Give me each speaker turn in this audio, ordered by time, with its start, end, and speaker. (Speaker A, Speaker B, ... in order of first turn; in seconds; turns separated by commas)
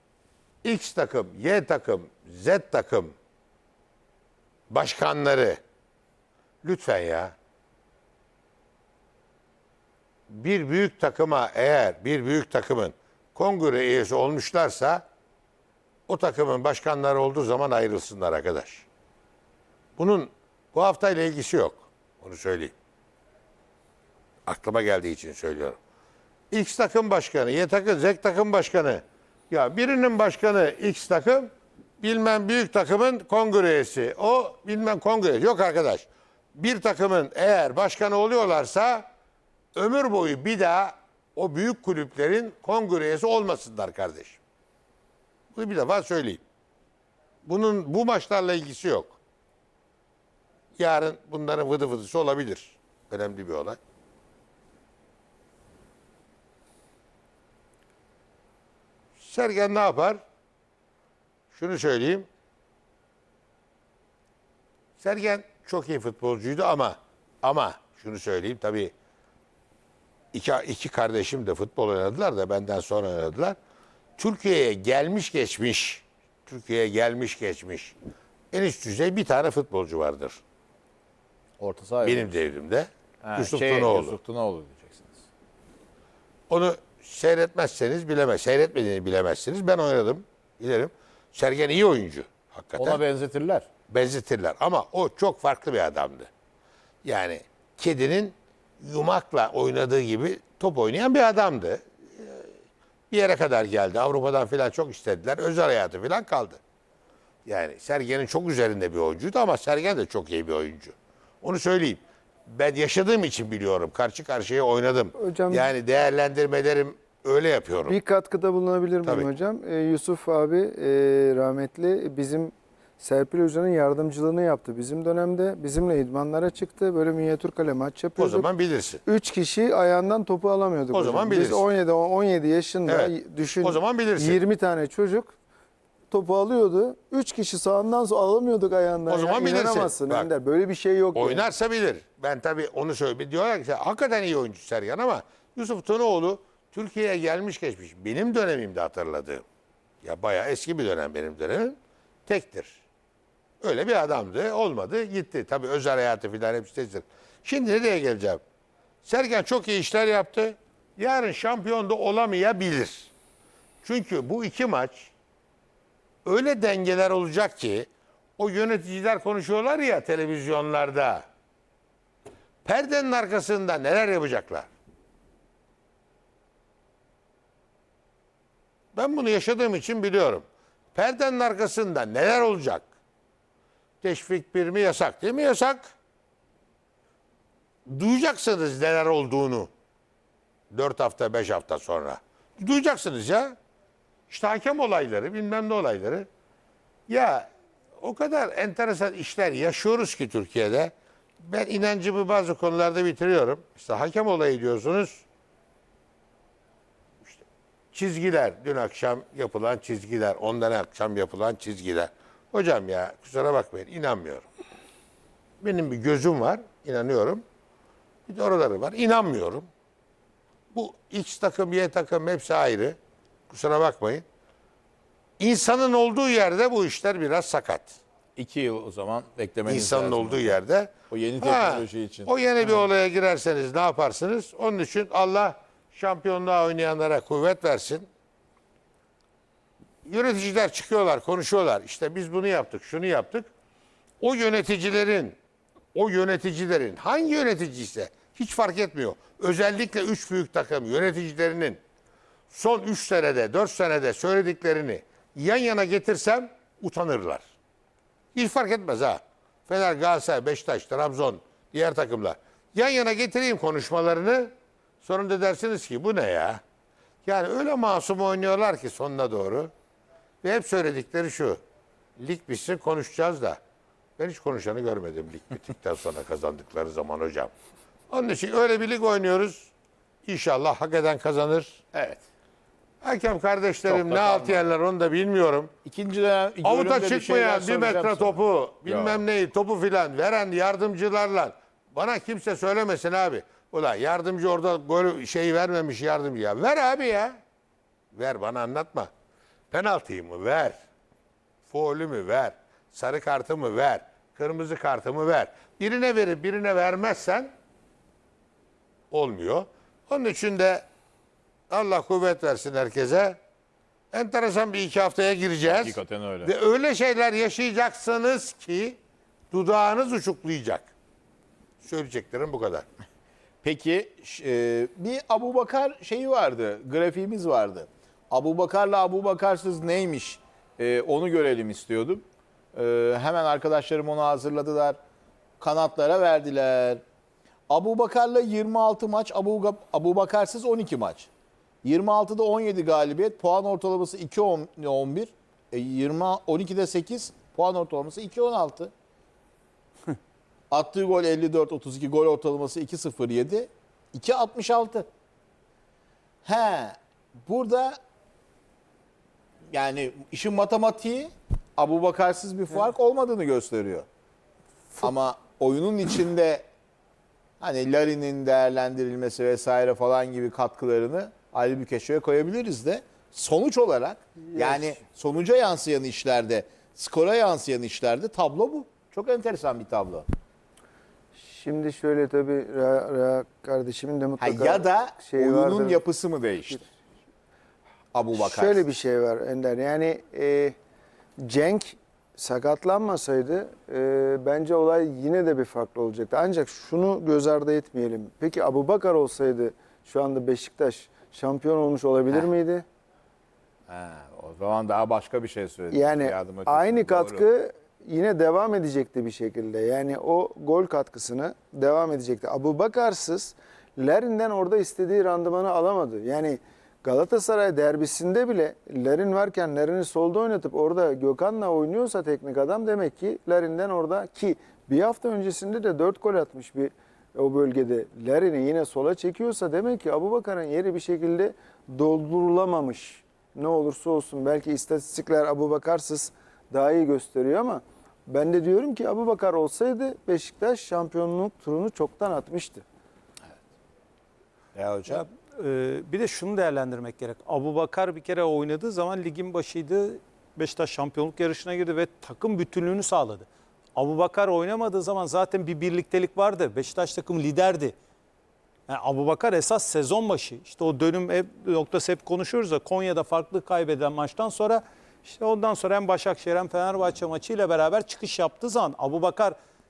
Speaker A: 0.6-3.1, Speaker A: 4.7-5.6, Speaker A: 6.6-7.3, Speaker A: 10.3-15.0, Speaker A: 16.1-18.9, Speaker A: 20.0-22.7, Speaker A: 24.4-25.8, Speaker A: 26.5-39.1, Speaker A: 39.7-44.4, Speaker A: 45.5-46.4, Speaker A: 47.4-49.2, Speaker A: 50.8-53.8, Speaker A: 59.2-60.2, Speaker A: 61.5-62.3, Speaker A: 65.0-68.9, Speaker A: 70.3-73.5, Speaker A: 74.2-78.0, Speaker A: 78.5-80.4, Speaker B: 81.6-82.3, Speaker A: 82.0-84.2, Speaker B: 83.2-85.2, Speaker A: 86.5-93.0, Speaker B: 92.8-93.7, Speaker A: 93.9-96.3, Speaker A: 97.0-102.5, Speaker A: 103.1-106.6, Speaker A: 107.5-118.0, Speaker C: 115.2-115.7, Speaker C: 117.9-128.5, Speaker A: 128.2-129.0, Speaker C: 129.0-135.3, Speaker A: 130.9-131.7, Speaker A: 132.8-134.4, Speaker C: 136.1-141.4, Speaker A: 139.1-140.3, Speaker A: 141.1-149.4, Speaker A: 150.0-152.8, Speaker A: 153.6-158.4, Speaker A: 159.0-163.1, Speaker A: 163.8-165.1, Speaker A: 166.2-171.2, Speaker A: 172.6-174.7, Speaker A: 178.9-182.9, Speaker A: 184.0-185.9, Speaker A: 187.9-189.7, Speaker A: 190.7-193.6, Speaker A: 194.3-196.3, Speaker A: 197.1-197.5, Speaker A: 198.0-205.2, Speaker A: 207.2-214.5, Speaker A: 215.6-217.4, Speaker A: 218.3-219.7, Speaker A: 220.7-223.0, Speaker A: 223.5-224.2, Speaker A: 225.4-228.0, Speaker B: 228.3-230.5, Speaker A: 229.7-238.1, Speaker B: 231.1-232.3, Speaker A: 240.0-243.5, Speaker A: 244.2-245.4, Speaker A: 245.9-251.8, Speaker A: 252.5-257.4, Speaker A: 258.3-264.5, Speaker A: 265.0-266.6, Speaker A: 267.2-269.7, Speaker A: 270.4-271.6, Speaker A: 272.2-273.6, Speaker A: 274.2-277.5, Speaker A: 278.1-279.7, Speaker A: 280.2-281.8, Speaker B: 281.9-282.2, Speaker A: 283.0-285.7, Speaker B: 283.9-284.6, Speaker B: 285.8-289.2, Speaker A: 286.6-297.4, Speaker A: 298.1-299.1, Speaker A: 299.7-300.8, Speaker A: 301.7-307.5, Speaker A: 309.1-310.9, Speaker A: 311.7-313.4, Speaker A: 314.1-319.0, Speaker B: 315.8-316.5, Speaker A: 319.5-320.9, Speaker A: 321.8-322.8, Speaker B: 323.6-335.0, Speaker B: 335.6-337.0, Speaker B: 337.7-341.3, Speaker B: 341.8-348.9, Speaker B: 350.7-355.1, Speaker B: 356.4-358.0, Speaker B: 359.7-364.0, Speaker B: 365.0-366.6, Speaker B: 367.6-380.3, Speaker C: 374.5-374.9, Speaker C: 381.4-386.0, Speaker B: 384.4-386.9, Speaker B: 388.1-388.8, Speaker C: 388.3-390.8, Speaker C: 391.4-402.8, Speaker B: 403.9-407.4, Speaker C: 405.9-442.8, Speaker B: 444.8-445.2, Speaker D: 445.1-457.9, Speaker D: 458.9-469.6